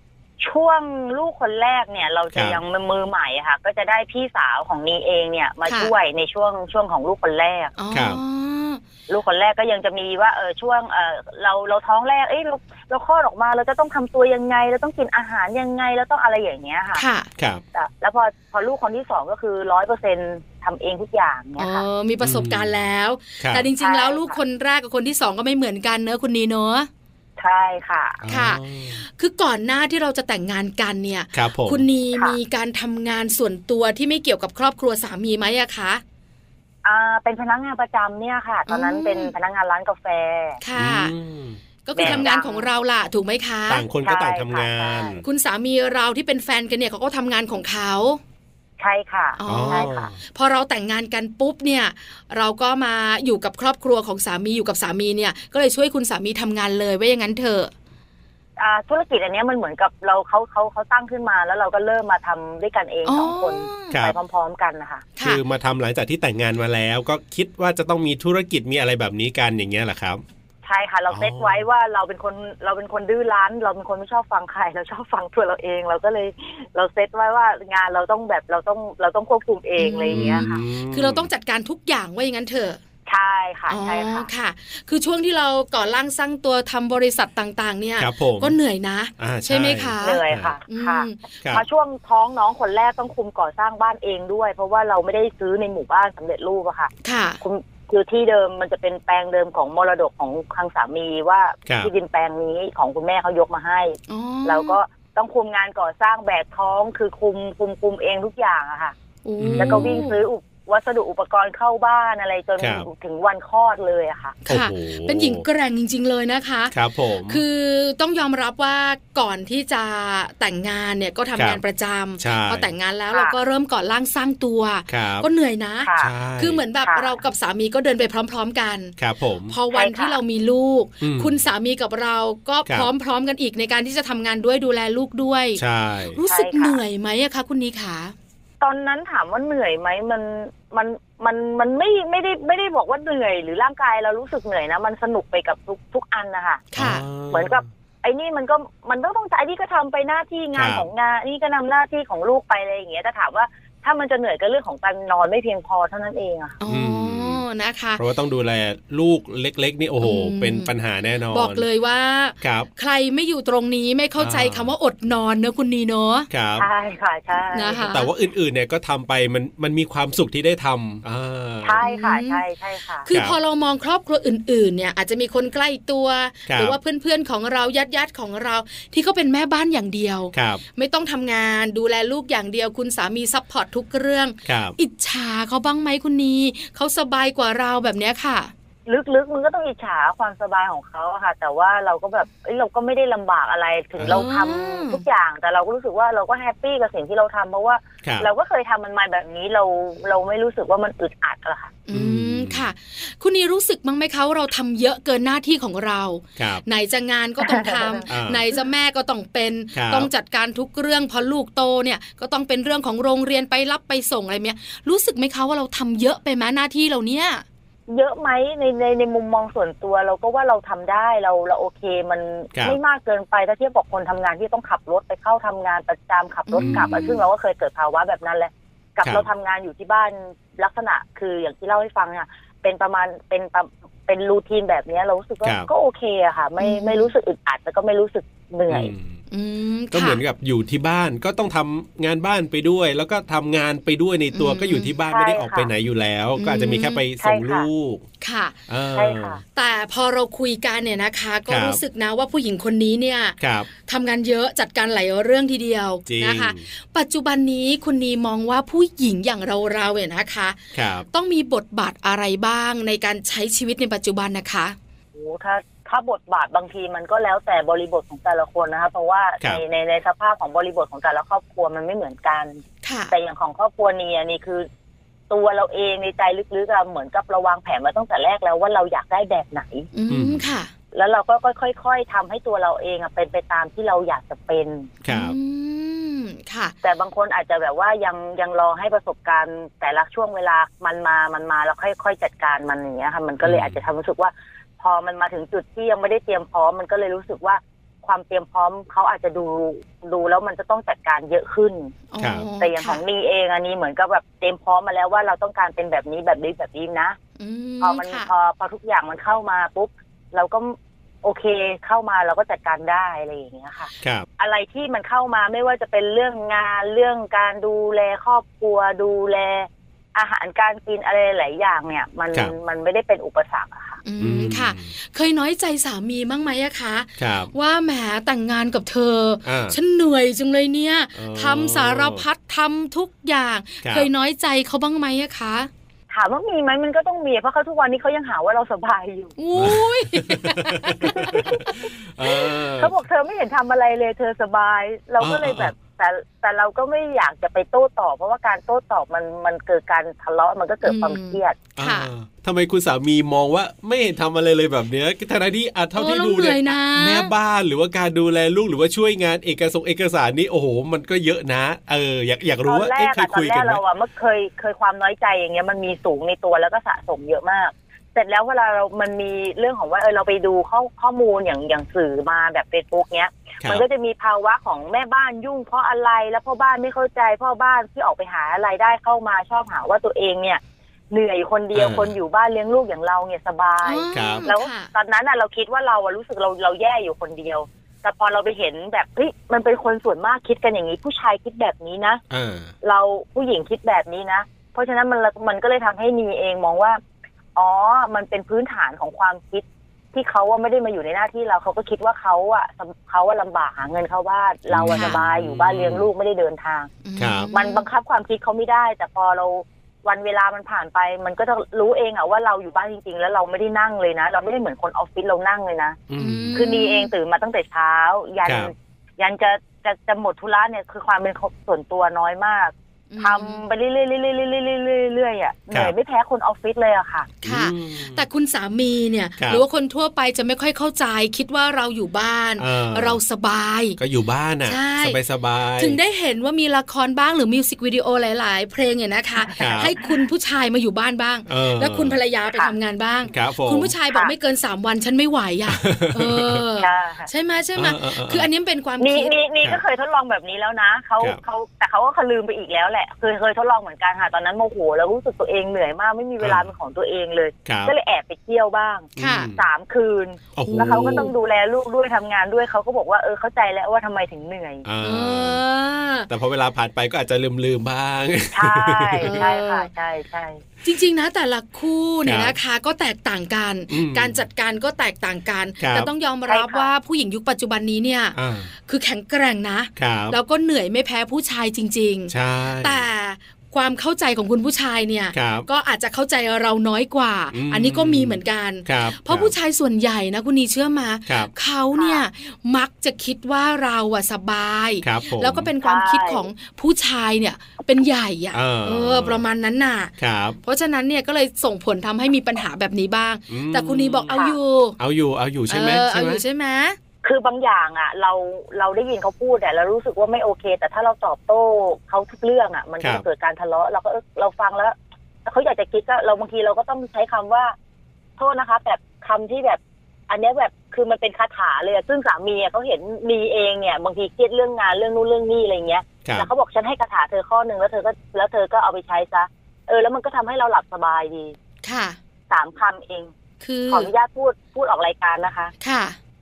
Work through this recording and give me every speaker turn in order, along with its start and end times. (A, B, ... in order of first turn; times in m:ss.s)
0:00.4-0:07.7 A
0:02.3-0:02.6 B
0:05.6-0:05.9 C
0:07.8-0:08.8 C
0:07.9-0:08.2 B
0:09.1-0:17.0 A
0:16.9-0:17.3 C
0:17.4-0:17.6 B
0:17.7-0:21.8 A
0:21.6-0:26.9 C
0:22.2-0:22.8 B
0:23.4-0:23.7 B
0:23.8-0:24.4 A
0:27.4-0:28.2 A
0:28.2-0:29.0 B
0:28.3-0:36.0 C
0:31.3-0:31.8 B
0:36.8-0:40.6 A
0:38.7-0:39.3 C
0:40.6-0:41.1 C
0:40.8-0:42.2 B
0:41.8-0:43.8 C
0:42.0-0:42.7 A
0:43.7-0:45.2 B
0:44.0-0:45.2 A
0:45.2-0:48.2 C
0:48.8-0:50.1 A
0:49.4-0:57.7 C
0:49.4-0:50.2 B
0:58.6-1:05.1 A
1:03.0-1:03.9 C
1:05.2-1:10.2 B
1:10.6-1:20.6 A
1:11.1-1:11.6 B
1:19.8-1:22.8 C
1:20.1-1:21.3 B
1:23.0-1:24.3 A
1:23.7-1:31.2 C
1:28.0-1:28.6 B
1:29.2-1:30.6 B
1:30.0-1:48.9 A
1:37.0-1:37.4 C
1:41.6-1:41.9 B
1:44.1-1:44.8 C
1:49.2-1:50.2 C
1:49.4-1:50.2 B
1:49.6-1:54.4 A
1:52.6-1:52.9 B
1:54.4-1:56.7 C
1:54.5-1:55.4 B
1:56.7-1:57.4 B
1:57.3-2:08.9 C
2:01.4-2:01.6 B
2:02.2-2:02.7 B
2:03.1-2:03.4 A
2:04.9-2:05.3 B
2:05.8-2:06.1 A
2:06.0-2:06.6 B
2:06.8-2:07.2 A
2:09.0-2:09.5 B
2:09.5-2:15.6 C
2:09.7-2:10.2 A
2:11.0-2:11.3 B
2:15.6-2:16.2 B
2:16.1-2:18.1 C
2:16.2-2:16.8 A
2:18.6-2:26.7 A
2:26.7-2:27.0 C
2:26.8-2:27.6 B
2:27.3-2:36.6 A
2:30.5-2:30.9 B
2:36.6-2:38.0 C
2:36.7-2:37.4 B
2:38.0-2:41.6 B
2:40.0-2:40.7 C
2:41.3-2:46.3 C
2:42.4-2:42.7 B
2:44.2-2:44.7 B
2:46.3-2:46.7 B
2:46.6-2:47.9 A
2:47.5-2:48.1 C
2:47.9-2:51.8 B
2:51.6-2:53.1 A
2:51.8-2:52.4 C
2:53.0-3:08.5 C
2:53.1-2:53.4 B
2:56.5-2:56.8 B
3:00.3-3:00.6 B
3:04.4-3:04.8 B
3:08.8-3:21.8 A
3:14.0-3:14.3 B
3:14.1-3:15.0 C
3:18.0-3:18.3 B
3:21.9-3:37.4 C
3:21.9-3:22.7 B
3:26.4-3:26.6 B
3:27.4-3:28.0 A
3:28.1-3:28.4 B
3:29.7-3:30.1 B
3:37.9-3:58.9 A
3:46.5-3:47.2 C
3:46.6-3:47.2 B
3:55.4-3:55.7 B
3:56.6-3:57.1 C
3:58.7-3:59.2 B
3:59.3-4:00.2 C
3:59.9-4:08.0 B
4:04.3-4:04.9 C
4:05.1-4:05.7 A
4:06.4-4:07.0 C
4:07.2-4:07.7 A
4:08.2-4:08.6 C
4:08.7-4:09.4 B
4:08.9-4:09.4 A
4:09.5-4:20.6 C
4:11.5-4:11.8 B
4:13.4-4:13.7 B
4:16.0-4:16.6 B
4:20.7-4:21.0 B
4:21.1-4:24.8 C
4:25.1-4:34.6 A
4:32.8-4:33.1 C
4:35.3-4:39.9 A
4:39.9-4:40.7 C
4:40.1-4:40.5 B
4:40.9-4:44.9 A
4:45.0-4:45.4 B
4:45.1-4:46.7 C
4:46.8-5:02.0 A
4:53.4-4:53.8 B
5:02.1-5:03.0 C
5:02.2-5:02.4 B
5:02.6-5:07.2 A
5:07.4-5:08.3 C
5:07.8-5:24.0 A
5:24.0-5:35.7 C
5:24.2-5:24.9 B
5:27.2-5:27.5 B
5:29.4-5:29.8 B
5:31.1-5:32.2 B
5:33.8-5:34.1 B
5:36.1-5:39.4 A
5:39.4-5:41.8 C
5:39.6-5:42.9 B
5:41.0-5:41.8 A
5:42.4-5:51.6 A
5:45.2-5:45.7 B
5:50.8-5:52.1 C
5:51.8-6:03.8 B
5:55.9-5:57.3 C
6:02.6-6:32.2 A
6:21.7-6:22.2 B
6:23.8-6:24.9 C
6:24.1-6:24.5 B
6:32.3-6:32.7 B
6:32.8-6:37.0 A
6:37.6-6:46.9 A
6:44.7-6:46.1 B
6:44.9-6:45.2 C
6:47.0-6:47.8 C
6:47.2-6:47.5 B
6:47.5-6:56.0 A
6:56.1-6:56.6 B
6:56.2-6:57.1 C
6:56.5-7:07.3 A
6:58.4-6:58.7 B
7:03.1-7:03.6 C
7:07.4-7:14.0 C
7:07.4-7:08.2 B
7:09.4-7:09.6 B
7:12.6-7:13.2 B
7:14.0-7:16.0 B
7:14.6-7:15.2 C
7:15.8-7:29.3 C
7:19.5-7:20.1 A
7:19.6-7:19.9 B
7:21.4-7:22.2 B
7:22.5-7:22.7 A
7:23.3-7:23.9 B
7:25.7-7:26.6 B
7:26.8-7:27.3 A
7:27.8-7:28.5 B
7:29.0-7:44.8 A
7:36.4-7:36.7 B
7:37.6-7:37.9 B
7:39.2-7:39.6 B
7:39.2-7:39.5 C
7:40.6-7:41.3 B
7:40.6-7:41.2 C
7:44.8-7:45.6 B
7:45.0-7:46.3 C
7:46.3-7:49.4 B
7:48.5-7:50.6 A
7:49.2-7:49.9 C
7:50.8-8:25.0 C
7:52.2-7:52.6 B
7:53.9-7:54.4 B
7:55.8-7:56.1 B
7:56.5-7:56.9 A
7:58.3-7:58.7 B
8:00.0-8:00.4 B
8:02.3-8:03.0 B
8:05.3-8:05.7 B
8:07.5-8:09.5 B
8:11.3-8:11.5 B
8:11.9-8:12.2 A
8:15.0-8:15.7 B
8:15.8-8:16.5 A
8:18.5-8:19.4 B
8:20.2-8:20.6 B
8:23.5-8:24.4 B
8:24.3-8:24.6 A
8:25.0-8:26.4 B
8:25.7-8:27.0 C
8:27.2-8:37.7 A
8:38.4-8:51.5 A
8:51.8-8:52.2 C
8:52.5-8:53.3 A
8:53.6-8:54.1 C
8:53.9-8:55.7 A
8:55.8-8:56.2 C